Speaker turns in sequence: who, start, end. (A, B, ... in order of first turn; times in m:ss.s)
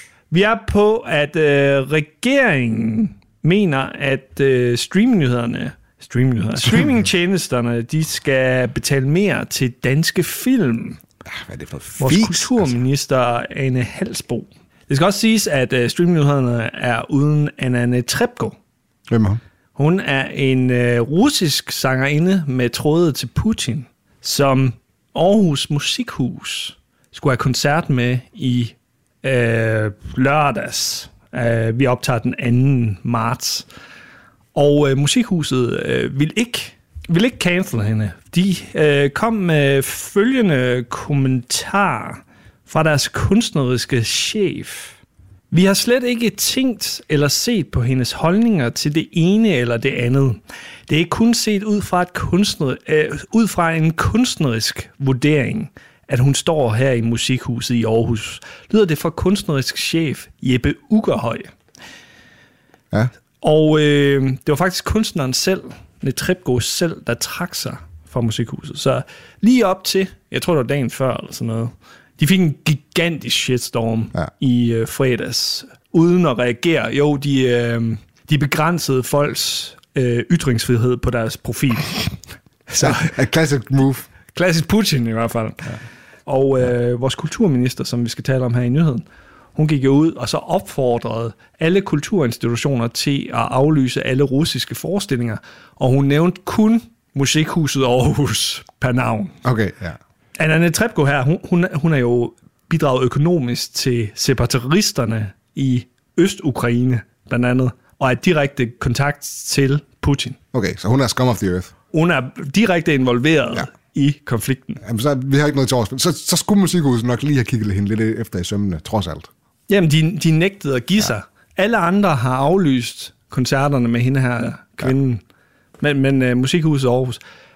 0:00.3-0:11.0 A
0:11.3-0:12.8 B
0:12.0-0:18.6 A
0:19.1-0:19.4 B
0:19.8-0:33.6 A
0:34.6-0:45.0 A
0:45.5-1:01.5 A
1:03.4-1:22.1 A
1:22.7-1:23.1 A
1:22.8-1:24.1 B
1:24.3-1:29.0 A
1:29.6-1:39.4 A
1:39.4-1:40.0 B
1:40.4-1:50.4 A
1:50.5-1:51.7 B
1:51.9-1:54.8 A
1:54.8-1:59.3 B
1:59.7-2:05.2 A
2:05.8-2:07.2 A